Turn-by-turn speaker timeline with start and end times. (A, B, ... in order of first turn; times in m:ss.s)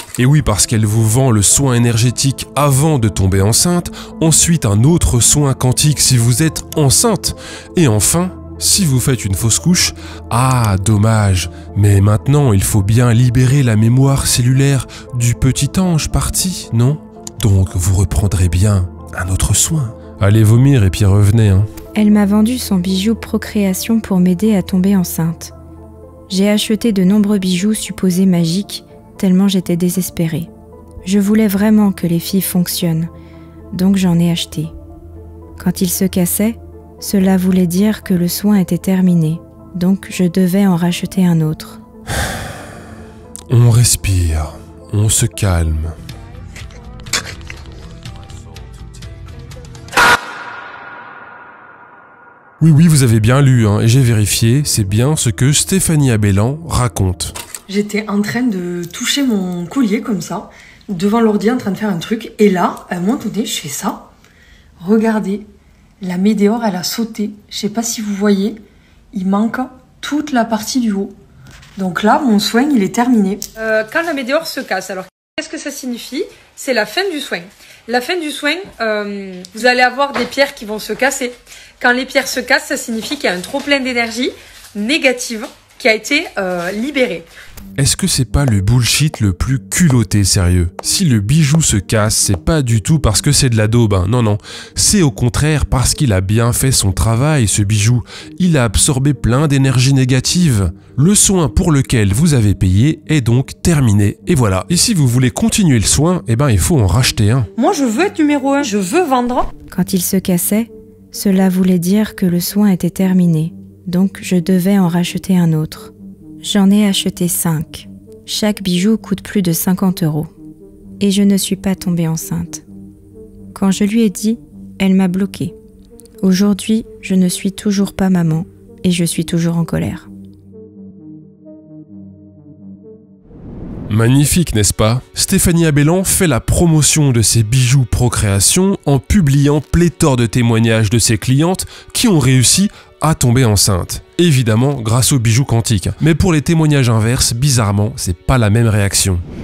0:00.2-0:21.7 A
0:21.9-0:25.5 B
0:26.3-0:30.5 B
0:31.0-0:33.1 B
0:33.7-0:34.7 B
0:35.6-0:41.8 B
0:43.5-0:45.9 A
0:52.6-0:57.3 A
0:57.7-1:04.1 C
1:04.8-1:05.5 C
1:06.0-1:08.6 C
1:09.1-1:11.1 C
1:11.8-1:27.3 C
1:27.8-1:47.5 A
1:47.6-1:49.5 C
1:49.7-1:55.9 B
1:56.4-2:00.3 B
2:01.0-2:02.6 B
2:03.5-2:05.5 B
2:06.2-2:10.1 B
2:13.9-2:29.2 A